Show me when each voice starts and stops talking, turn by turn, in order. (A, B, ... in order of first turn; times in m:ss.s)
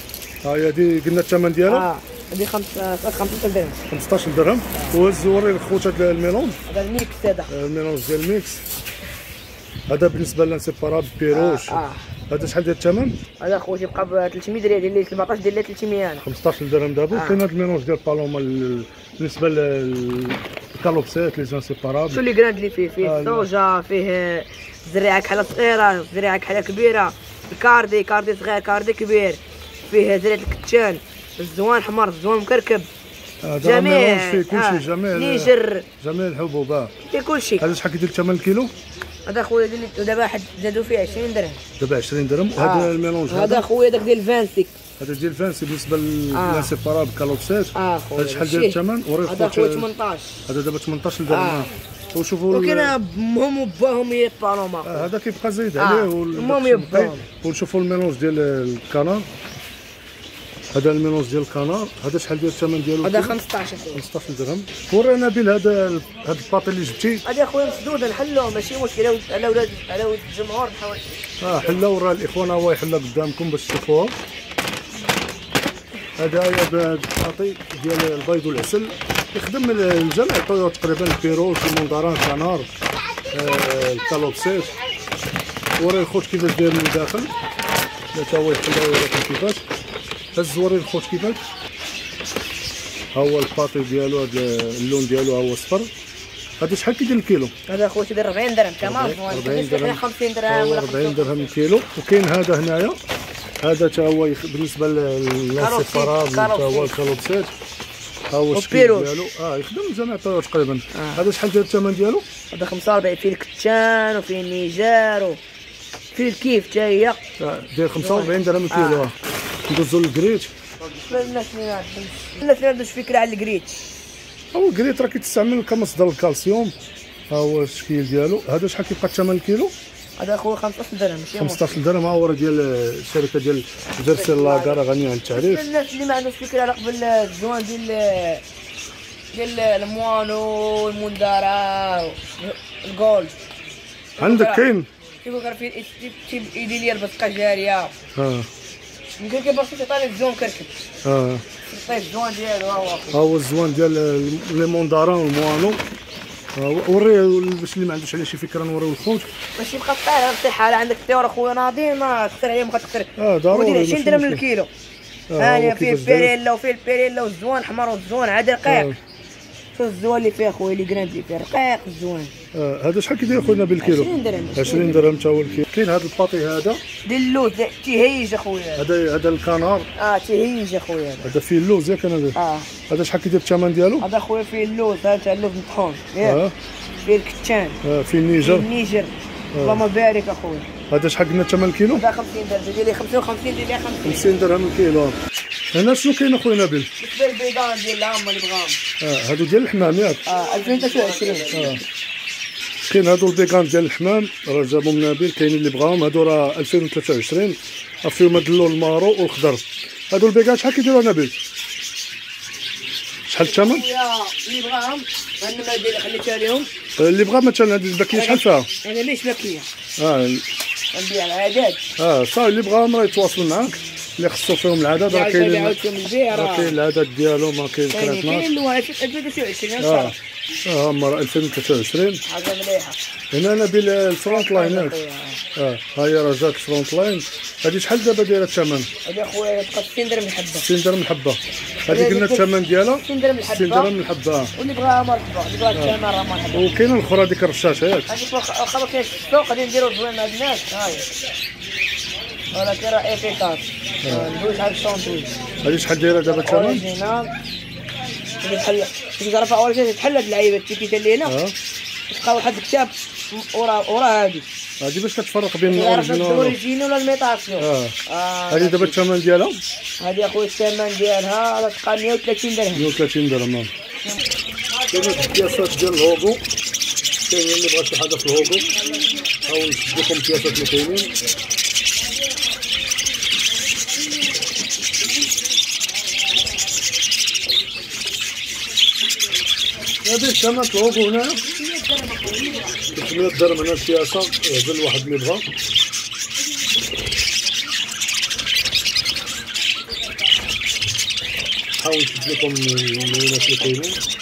0:00.4-0:01.9 A
0:01.6-0:03.8 B
0:03.9-0:06.6 A
0:06.7-0:07.5 B
0:07.5-0:08.6 A
0:09.9-0:13.2 A
0:11.3-0:12.1 B
0:13.4-0:16.2 B
0:16.2-0:22.2 A
0:17.1-0:17.4 B
0:22.1-0:32.9 B
0:23.0-0:23.5 A
0:33.4-0:36.9 A
0:33.6-0:35.8 B
0:37.0-0:37.7 B
0:37.6-0:38.7 A
0:39.2-0:41.6 B
0:41.8-0:43.6 A
0:42.6-0:44.8 B
0:45.0-0:49.9 A
0:46.3-0:46.7 B
0:47.7-0:50.4 B
0:50.5-0:52.9 A
0:51.3-0:51.7 B
0:52.5-0:55.1 B
0:54.8-0:59.3 A
0:55.8-0:57.2 B
1:00.7-1:03.4 A
1:03.0-1:04.0 B
1:03.9-1:07.2 A
1:07.2-1:11.8 B
1:11.4-1:14.1 A
1:16.2-1:22.7 A
1:23.3-1:24.7 A
1:25.8-1:27.3 A
1:28.1-1:29.6 A
1:30.3-1:31.4 A
1:33.1-1:35.9 A
1:36.6-1:37.5 A
1:37.7-1:41.5 B
1:38.8-1:43.0 A
1:43.6-1:47.5 A
1:45.6-1:47.0 B
1:48.3-1:52.2 A
1:48.5-1:49.1 B
1:50.9-1:51.2 B
1:52.5-1:55.4 B
1:56.1-1:57.2 B
1:57.4-1:59.1 A
1:58.0-1:59.1 B
1:59.7-2:00.5 A
2:01.0-2:03.7 B
2:04.5-2:06.7 A
2:07.3-2:09.7 A
2:10.2-2:11.8 B
2:11.4-2:15.6 A
2:14.1-2:18.4 B
2:19.3-2:23.4 B
2:24.2-2:24.6 B
2:24.2-2:24.9 A
2:25.2-2:27.9 B
2:28.1-2:28.5 A
2:29.2-2:30.7 B
2:31.0-2:31.4 A
2:31.6-2:33.2 B
2:33.1-2:35.8 A
2:36.6-2:39.3 A
2:39.6-2:44.7 B
2:43.2-2:44.4 A
2:45.3-2:46.3 A
2:45.4-2:48.9 B
2:48.6-2:49.0 A
2:49.7-2:52.3 B
2:52.5-2:56.8 A
2:53.8-2:55.1 B
2:57.0-2:58.8 B
2:58.8-2:59.9 A
3:00.0-3:01.3 B
3:01.2-3:02.4 A
3:02.3-3:02.7 B
3:02.9-3:04.1 A
3:04.0-3:06.4 B
3:06.2-3:06.5 A
3:07.0-3:07.8 B
3:07.8-3:08.7 A
3:08.4-3:10.7 B
3:09.5-3:09.8 A
3:10.9-3:12.0 A
3:11.9-3:14.4 B
3:14.0-3:15.2 A
3:15.7-3:16.9 A
3:17.0-3:18.8 B
3:19.0-3:20.2 A
3:20.2-3:21.8 B
3:21.5-3:21.8 A
3:22.9-3:31.3 A
3:33.3-3:33.8 A
3:33.4-3:36.7 B
3:37.0-3:38.7 A
3:38.1-3:39.7 B
3:40.0-3:40.4 A
3:40.9-3:41.8 B
3:42.0-3:45.8 A
3:45.1-3:46.7 B
3:46.3-3:48.5 A
3:47.9-3:50.2 B
3:49.8-3:52.2 A
3:52.2-3:53.0 B
3:53.3-3:55.0 A
3:54.3-3:55.4 B
3:55.6-3:58.9 A
3:59.0-4:00.6 B
4:00.6-4:04.5 A
4:01.9-4:02.5 B
4:03.0-4:03.9 B
4:04.5-4:06.7 B
4:06.5-4:08.1 A
4:08.1-4:11.1 B
4:12.5-4:15.3 B
4:14.0-4:14.3 A
4:15.6-4:16.8 A
4:16.2-4:17.3 B
4:18.4-4:21.3 B
4:21.2-4:21.5 A
4:22.1-4:24.5 B
4:24.8-4:26.6 A
4:25.6-4:29.0 B
4:27.6-4:28.0 A
4:28.5-4:29.6 A
4:30.0-4:32.9 B
4:32.7-4:33.7 A
4:34.7-4:35.8 B
4:34.9-4:36.4 A
4:37.3-4:38.7 A
4:38.7-4:39.4 B
4:39.4-4:41.1 A
4:50.0-4:51.4 A
4:51.4-4:52.9 B
4:52.9-4:55.4 A
5:01.8-5:04.0 A